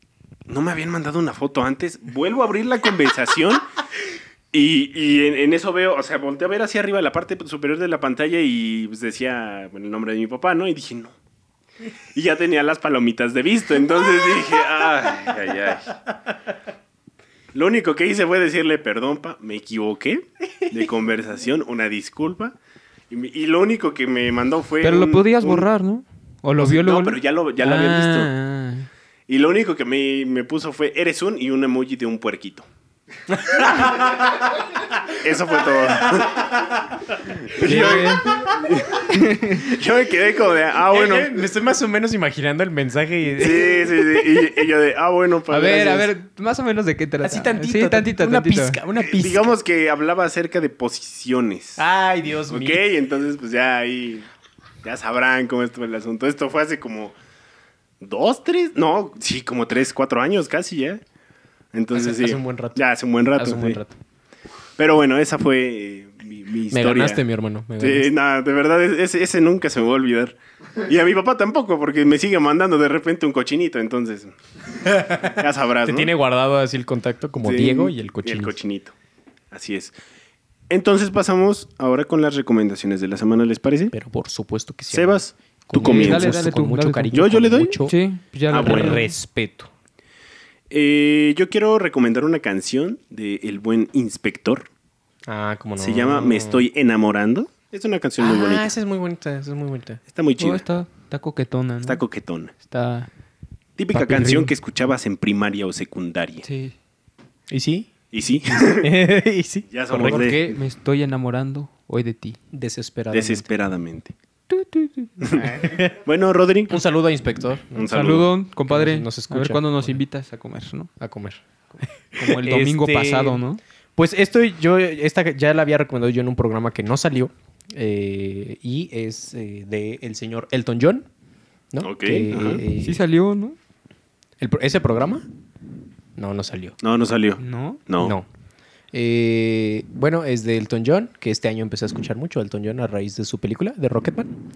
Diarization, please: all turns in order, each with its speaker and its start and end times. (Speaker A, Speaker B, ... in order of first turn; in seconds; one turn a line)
Speaker A: 0.5-3.7
Speaker A: 4.5-11.2
Speaker A: 12.2-16.0
Speaker A: 17.5-22.6
Speaker A: 23.1-25.7
Speaker B: 24.8-28.9
Speaker A: 26.6-28.3
Speaker A: 29.3-32.7
Speaker C: 33.3-34.4
Speaker A: 35.1-36.5
Speaker C: 36.0-36.6
Speaker A: 37.3-41.4
Speaker B: 37.6-38.4
Speaker C: 37.7-38.0
Speaker B: 39.1-39.7
Speaker C: 40.9-44.5
Speaker A: 43.4-46.1
Speaker B: 45.5-48.8
Speaker C: 47.2-49.5
Speaker A: 49.1-51.8
Speaker C: 51.8-52.8
Speaker A: 52.5-54.3
Speaker A: 54.8-57.1
Speaker A: 58.0-61.0
Speaker A: 61.7-63.8
Speaker C: 61.9-62.8
Speaker C: 63.4-64.0
Speaker A: 64.8-67.2
Speaker C: 66.7-68.1
Speaker A: 67.8-74.3
Speaker C: 74.9-78.5
Speaker A: 75.2-76.1
Speaker A: 77.4-78.9
Speaker A: 79.5-79.9
Speaker A: 80.7-83.9
Speaker C: 83.9-88.0
Speaker A: 84.9-86.6
Speaker B: 85.8-87.1
Speaker A: 87.1-87.8
Speaker B: 87.8-89.0
Speaker A: 88.5-89.0
Speaker C: 88.5-89.7
Speaker A: 90.7-94.7
Speaker C: 95.3-96.7
Speaker A: 95.8-98.7
Speaker C: 98.2-100.0
Speaker A: 100.1-100.7
Speaker B: 100.4-102.0
Speaker A: 101.8-102.5
Speaker B: 102.5-103.1
Speaker A: 103.8-106.5
Speaker C: 104.0-104.5
Speaker B: 104.0-104.5
Speaker B: 106.4-106.8
Speaker C: 107.5-108.0
Speaker A: 108.1-108.9
Speaker C: 108.5-110.5
Speaker A: 109.7-110.4
Speaker B: 110.0-112.4
Speaker C: 112.5-113.5
Speaker A: 113.1-114.1
Speaker B: 114.5-115.8
Speaker C: 115.6-116.0
Speaker A: 116.0-116.8
Speaker C: 116.7-118.2
Speaker A: 117.8-118.3
Speaker B: 117.9-120.9
Speaker C: 118.7-120.0
Speaker C: 121.0-123.4
Speaker B: 122.2-123.6
Speaker C: 124.0-131.1
Speaker C: 131.7-133.0
Speaker A: 131.8-132.6
Speaker B: 132.8-133.6
Speaker C: 134.4-135.3
Speaker C: 136.2-136.8
Speaker A: 136.8-138.2
Speaker B: 137.4-137.8
Speaker C: 138.0-138.3
Speaker C: 138.9-144.3